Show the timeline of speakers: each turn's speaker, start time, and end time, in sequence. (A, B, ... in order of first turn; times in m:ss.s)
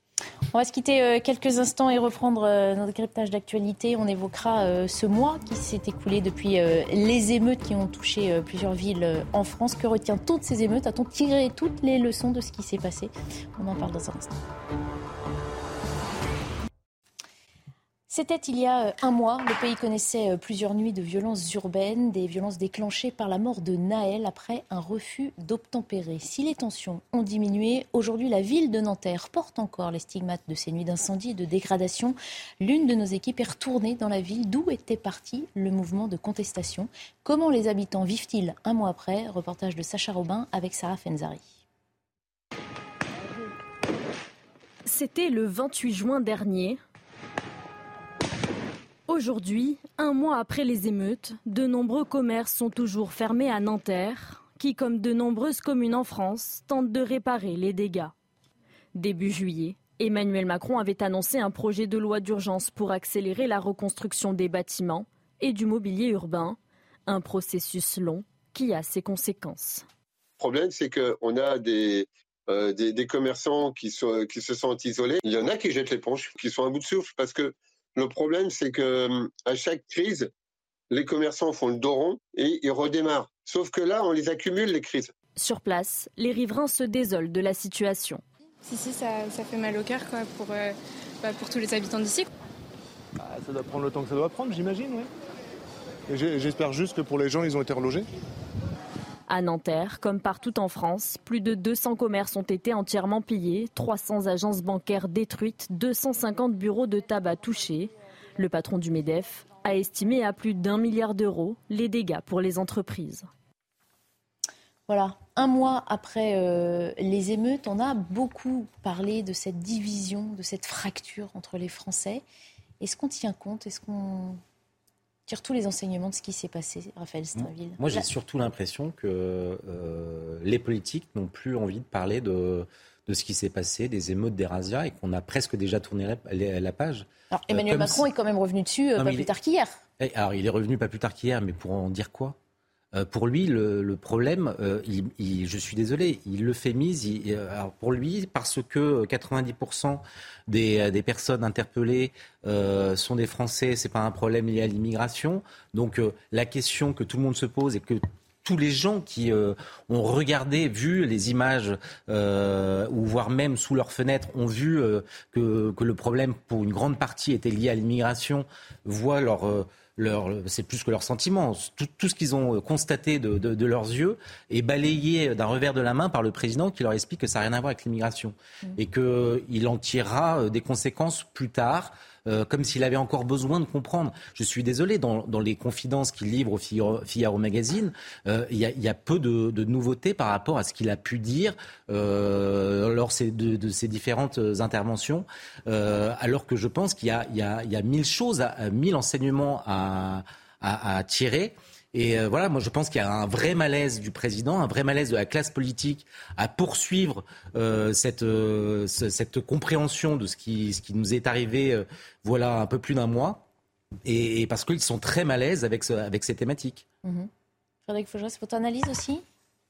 0:00.5-0:14.3 A
0:18.1-0:41.5 A
0:44.8-0:46.8 B
0:49.1-0:58.1 B
0:58.9-1:09.8 B
1:10.4-1:20.3 C
1:20.9-1:25.1 C
1:25.4-1:28.2 B
1:28.6-1:32.3 D
1:33.2-1:35.1 E
1:36.1-1:38.1 E
1:39.3-1:53.3 B
1:54.9-2:02.2 A
2:02.8-2:04.4 A
2:05.3-2:08.0 A
2:07.4-2:18.1 F
2:17.3-2:19.8 A
2:19.0-2:19.3 F
2:20.0-2:22.4 F
2:22.9-3:33.4 F
3:34.0-3:36.8 F
3:37.9-3:39.2 A